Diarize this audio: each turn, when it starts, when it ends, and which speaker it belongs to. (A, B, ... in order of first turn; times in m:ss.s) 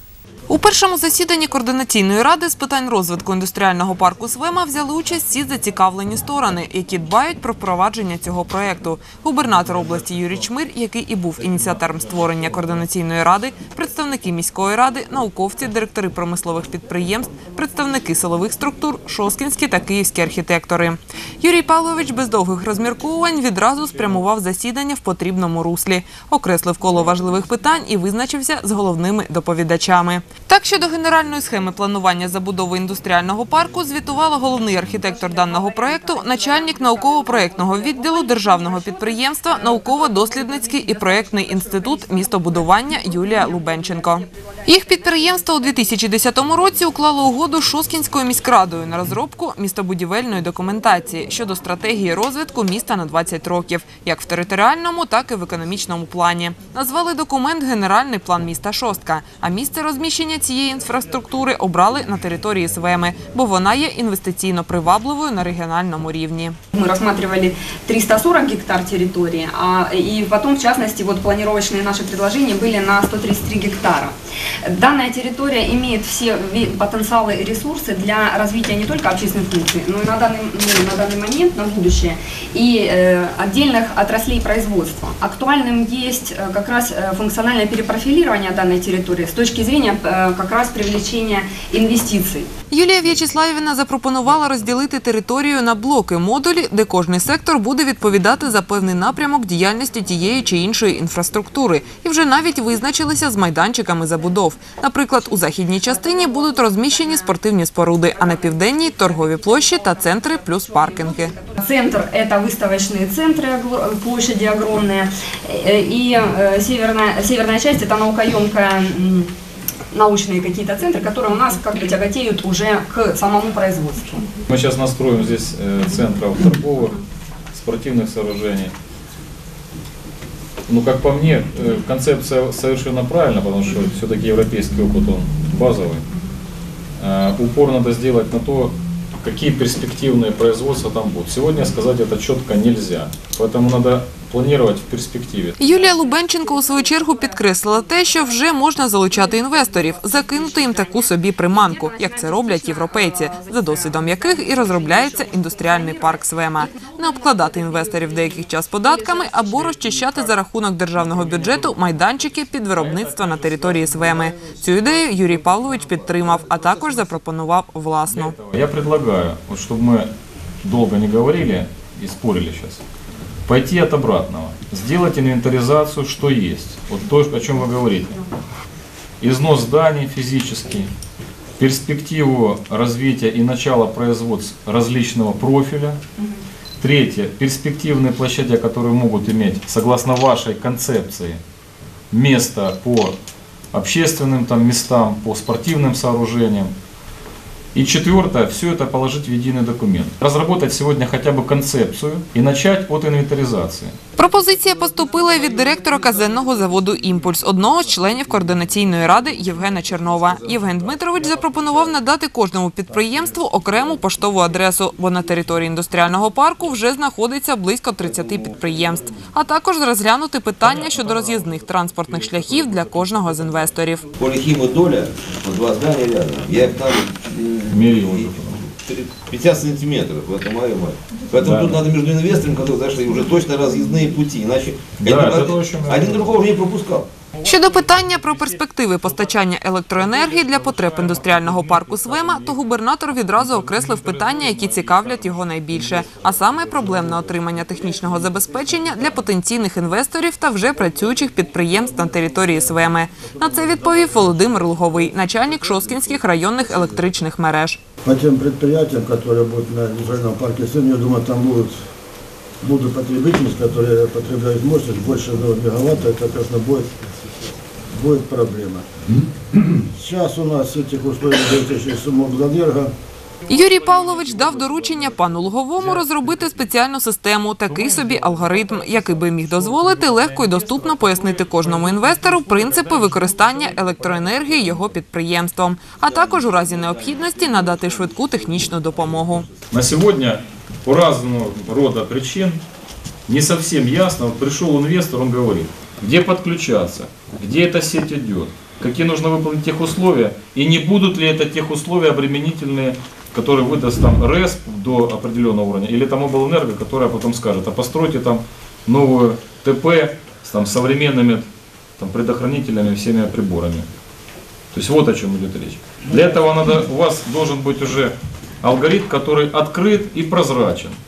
0:00.5-1:06.6 A
0:35.0-0:45.8 B
1:06.7-1:14.1 B
1:14.6-1:32.5 B
1:32.7-1:51.4 A
1:45.7-1:47.3 B
1:48.0-1:59.3 B
1:59.9-2:04.4 B
2:04.5-2:07.0 C
2:07.5-2:08.7 C
2:10.7-2:16.0 C
2:17.0-2:25.6 C
2:25.6-2:48.3 A
2:25.6-2:39.6 B
2:43.4-2:43.9 C
2:45.0-2:47.1 D
2:48.1-2:50.1 C
2:50.6-2:52.8 C
2:53.4-2:58.2 C
2:59.2-3:00.9 C
3:01.6-3:06.0 C
3:06.8-3:11.4 C
3:12.1-3:13.2 C
3:13.7-3:16.7 C
3:17.7-3:24.0 C
3:24.2-3:44.0 A
3:25.1-3:31.0 D
3:40.7-3:41.1 C
3:42.1-3:43.4 C
3:44.2-3:57.1 D
3:47.7-3:48.7 C
3:51.4-3:51.8 C
3:55.0-3:56.4 C
3:57.4-4:17.8 A
4:03.4-4:05.2 C
4:06.0-4:06.9 C
4:07.6-4:09.0 E
4:10.7-4:17.0 E
4:18.0-4:21.8 E
4:22.6-4:27.0 E
4:27.8-4:32.9 E
4:33.5-4:49.4 A
4:46.0-4:49.6 D
4:49.7-4:52.6 C
4:53.3-5:11.5 C
5:12.0-5:13.8 C
5:14.7-5:21.0 C